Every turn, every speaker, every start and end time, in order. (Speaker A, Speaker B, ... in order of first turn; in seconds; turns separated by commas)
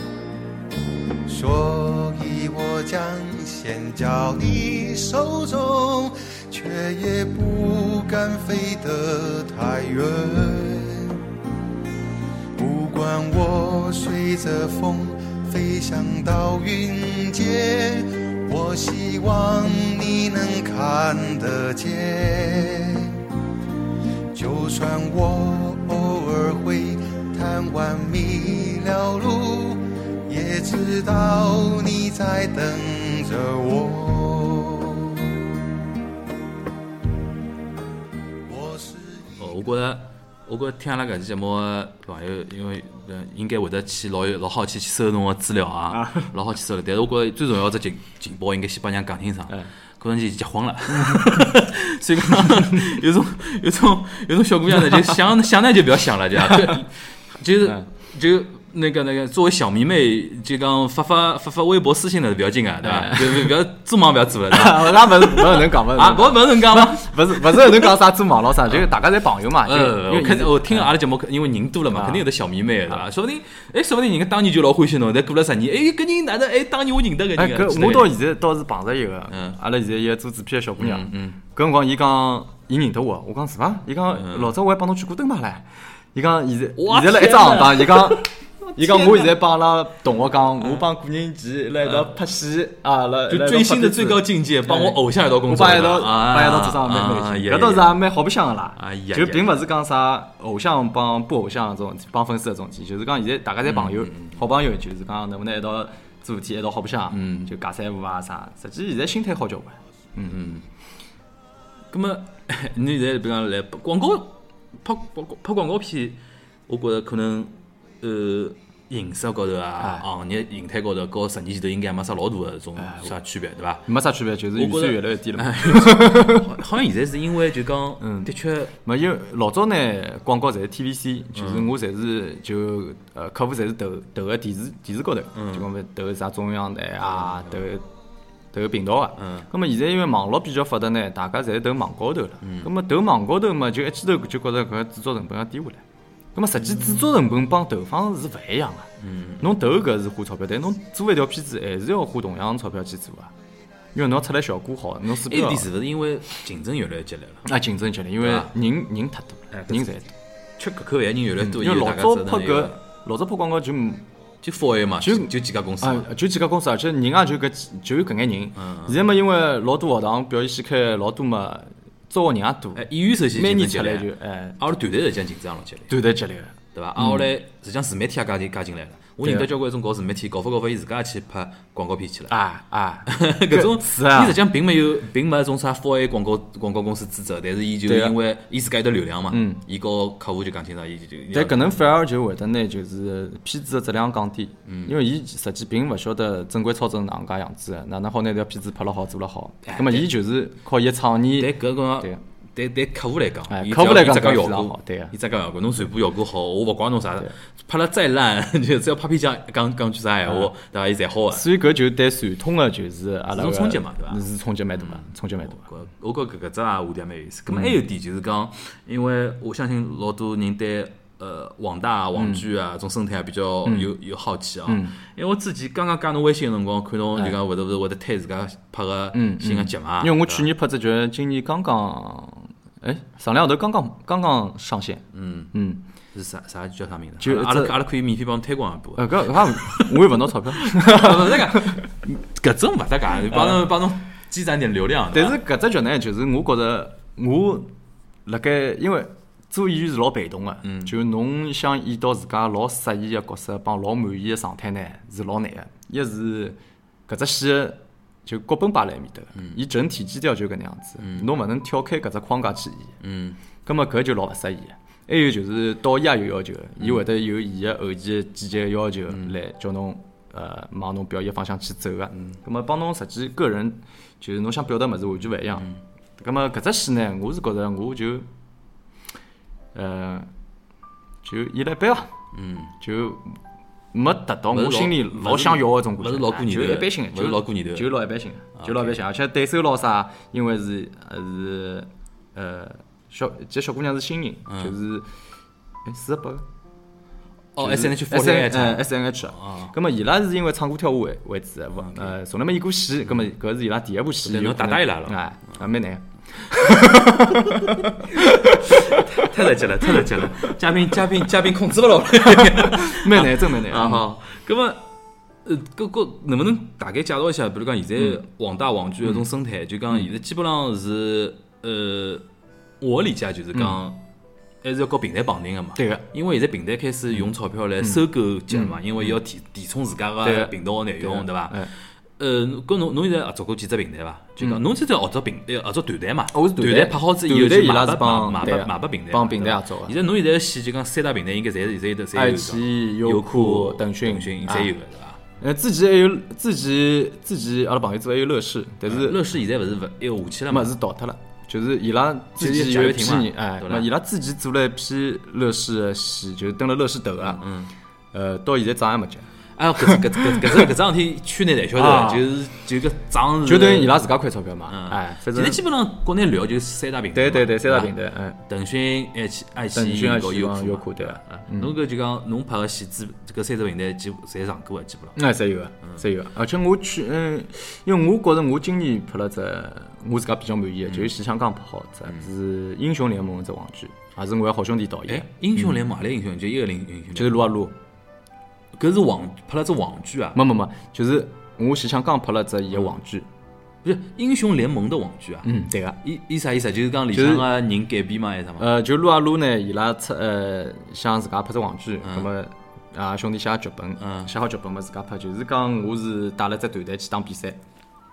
Speaker A: 1.2-11.2, Speaker A: 12.6-23.2, Speaker A: 24.3-35.5, Speaker A: 38.5-39.5, Speaker B: 39.4-67.9, Speaker C: 45.9-46.3, Speaker C: 52.4-52.7, Speaker C: 56.5-56.8, Speaker C: 62.8-63.6, Speaker C: 64.5-70.9, Speaker B: 69.6-78.1, Speaker C: 71.9-72.3, Speaker C: 77.3-110.4, Speaker B: 80.8-81.4, Speaker B: 84.1-84.5, Speaker B: 86.8-89.4, Speaker B: 91.8-92.2, Speaker B: 93.3-98.0, Speaker B: 98.8-99.5, Speaker B: 103.6-104.4, Speaker B: 107.1-107.5, Speaker B: 110.3-110.6, Speaker B: 111.9-123.9, Speaker C: 119.8-120.0, Speaker C: 122.8-123.1, Speaker C: 123.9-126.5, Speaker B: 124.5-128.7, Speaker C: 128.0-137.8, Speaker B: 131.3-131.7, Speaker B: 135.3-135.7, Speaker B: 137.0-137.6, Speaker C: 138.5-145.8, Speaker B: 139.2-139.5, Speaker B: 142.4-142.7, Speaker C: 146.3-153.3, Speaker B: 146.6-147.1, Speaker B: 149.0-149.5, Speaker C: 153.9-155.7, Speaker B: 155.2-157.5, Speaker C: 157.4-160.1, Speaker B: 158.2-158.5, Speaker B: 159.5-159.9, Speaker B: 160.6-162.7, Speaker C: 161.4-164.0, Speaker B: 164.4-166.1, Speaker C: 165.0-174.6, Speaker B: 168.6-169.0, Speaker B: 172.8-175.9, Speaker C: 175.9-177.3, Speaker B: 176.7-182.3, Speaker C: 179.2-179.5, Speaker C: 182.3-184.4, Speaker B: 183.1-191.7, Speaker C: 187.8-188.2, Speaker C: 189.3-189.6, Speaker C: 191.3-202.2, Speaker B: 194.7-194.9, Speaker B: 199.6-200.1, Speaker B: 201.4-211.4, Speaker C: 203.5-205.1, Speaker C: 211.3-215.7, Speaker B: 213.3-214.2, Speaker B: 214.8-230.5, Speaker C: 217.5-217.7, Speaker C: 222.2-222.4, Speaker C: 223.6-223.9, Speaker C: 224.7-224.9, Speaker C: 229.1-235.8, Speaker B: 235.1-235.5, Speaker B: 236.1-245.4, Speaker C: 237.2-237.8, Speaker C: 238.9-241.8, Speaker C: 243.3-243.6, Speaker C: 245.1-247.7, Speaker C: 248.2-256.6, Speaker B: 250.6-250.9, Speaker C: 257.1-262.9, Speaker B: 261.0-261.3, Speaker B: 263.0-263.4, Speaker C: 263.6-278.2, Speaker B: 269.1-269.3, Speaker C: 279.7-280.3, Speaker C: 281.2-282.1, Speaker B: 282.3-282.7, Speaker C: 282.8-283.3, Speaker C: 283.9-295.1, Speaker B: 284.5-287.9, Speaker B: 288.6-288.9, Speaker C: 295.8-296.4, Speaker B: 297.6-299.7, Speaker C: 297.6-309.3, Speaker B: 304.2-305.2, Speaker B: 306.9-314.8, Speaker C: 312.3-314.1, Speaker B: 315.4-322.2, Speaker B: 322.8-324.0, Speaker C: 323.5-323.8, Speaker B: 324.6-345.2, Speaker C: 325.8-326.0, Speaker C: 327.8-329.1, Speaker C: 330.2-331.7, Speaker C: 336.3-339.9, Speaker C: 342.1-344.7, Speaker C: 345.4-349.2, Speaker B: 348.9-350.7, Speaker C: 350.5-357.4, Speaker B: 352.4-353.9, Speaker B: 357.2-357.7, Speaker C: 358.1-359.2, Speaker B: 359.6-364.0, Speaker C: 359.8-360.7, Speaker C: 361.7-362.3, Speaker C: 363.4-365.6, Speaker B: 364.7-367.9, Speaker C: 367.1-368.4, Speaker B: 368.4-375.2, Speaker C: 369.7-371.7, Speaker C: 375.1-385.8, Speaker B: 380.8-381.1, Speaker B: 385.1-387.4, Speaker C: 387.1-387.7, Speaker B: 388.7-390.4, Speaker C: 390.3-393.3, Speaker B: 393.8-395.5, Speaker C: 395.4-396.0, Speaker B: 396.0-398.7, Speaker C: 397.1-397.5, Speaker C: 398.6-407.6, Speaker B: 404.0-404.3